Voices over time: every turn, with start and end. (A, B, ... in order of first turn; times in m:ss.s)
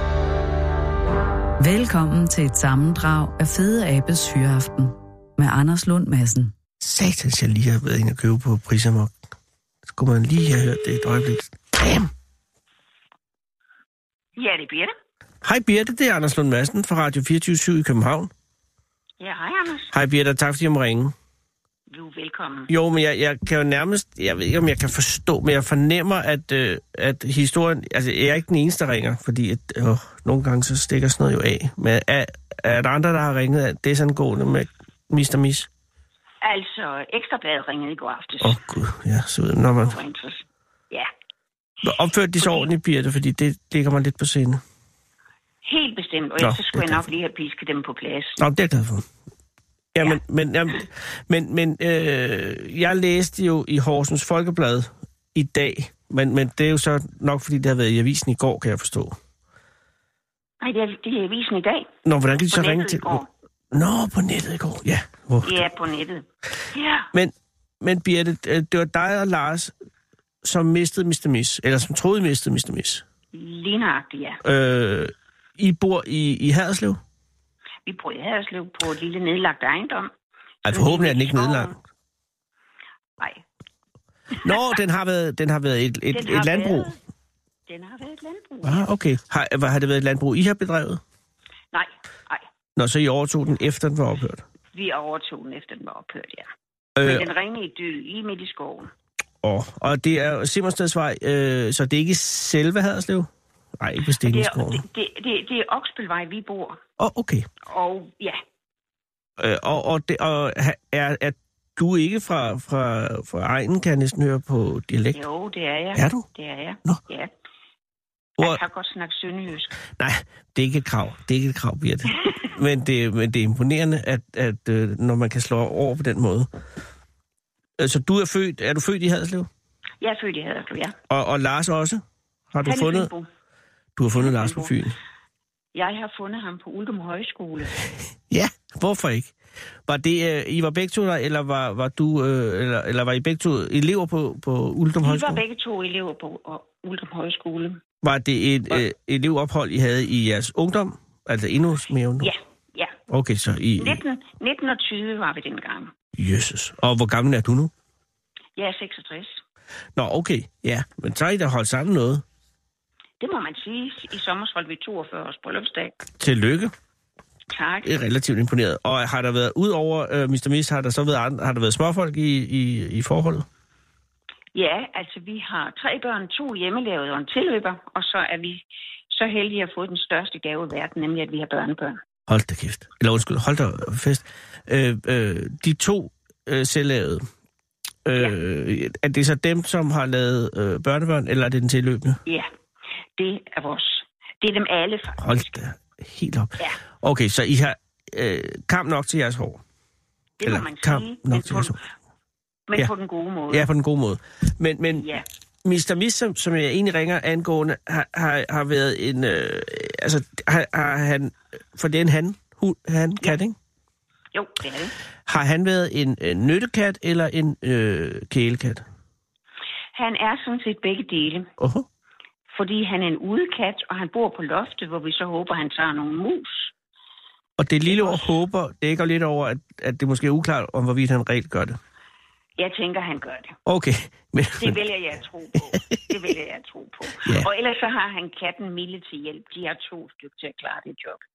0:01.6-0:06.5 A
0:06.8-0:09.2 B
0:09.9-0:12.1 B
0:14.4-0:14.9 C
0:15.4-0:18.3 B
0:19.2-0:19.9 C
0:19.9-0:21.1 B
0:21.9-0:22.7 C
0:22.7-0:35.7 B
0:36.4-0:38.6 C
0:38.4-0:40.0 B
0:39.9-0:41.1 C
0:41.8-0:44.6 B
0:42.4-0:42.7 C
0:45.6-0:48.4 C
0:46.4-0:47.1 B
0:48.4-0:49.1 B
0:49.9-0:59.2 B
1:00.6-1:01.9 C
1:02.0-1:05.6 B
1:02.5-1:03.3 C
1:05.4-1:07.1 C
1:07.1-1:09.7 B
1:10.4-1:13.0 B
1:13.3-1:14.4 C
1:14.4-1:17.0 B
1:17.9-1:20.1 C
1:20.7-1:21.8 B
1:20.7-1:21.8 C
1:23.2-1:23.4 C
1:24.4-1:24.6 C
1:24.4-1:26.9 B
1:26.1-1:27.0 C
1:27.7-1:28.9 C
1:28.6-1:31.0 B
1:31.7-1:32.4 C
1:32.8-1:34.4 B
1:34.7-1:36.5 C
1:37.0-1:37.3 B
1:37.0-1:38.9 C
1:39.4-1:44.8 B
1:44.2-1:46.8 C
1:47.0-1:47.5 B
1:47.6-1:48.4 C
1:49.4-1:55.2 B
1:55.2-1:57.3 C
1:56.0-1:56.3 B
1:58.4-1:59.7 C
1:59.9-2:06.5 B
2:07.8-2:09.5 B
2:10.0-2:11.0 C
2:11.1-2:13.1 B
2:12.6-2:13.3 C
2:14.0-2:15.0 B
2:14.1-2:14.7 C
2:15.8-2:17.8 C
2:18.3-2:19.3 B
2:19.9-2:25.4 B
2:25.0-2:27.8 C
2:28.0-2:32.3 B
2:32.2-2:33.0 C
2:33.1-2:34.0 B
2:33.8-2:35.9 C
2:36.1-2:37.7 B
2:38.6-2:39.4 C
2:40.0-2:42.2 B
2:43.2-2:46.0 C
2:46.2-2:46.7 B
2:47.5-2:47.9 C
2:47.8-2:53.5 B
2:54.6-3:02.0 C
3:02.3-3:07.2 B
3:08.0-3:12.2 B
3:13.2-3:15.4 C
3:15.2-3:19.6 B
3:20.4-3:21.8 C
3:20.4-3:21.8 B
3:22.7-3:23.7 C
3:23.5-3:33.6 B
3:25.0-3:25.3 C
3:34.3-3:34.9 C
3:35.3-3:38.8 B
3:40.0-3:41.5 C
3:41.6-3:41.9 B
3:42.5-3:46.7 C
3:47.6-3:51.8 B
3:47.9-3:48.3 C
3:52.6-3:53.6 C
3:53.7-3:54.8 B
3:54.6-4:01.2 C
3:55.7-3:56.0 B
3:57.2-3:57.5 B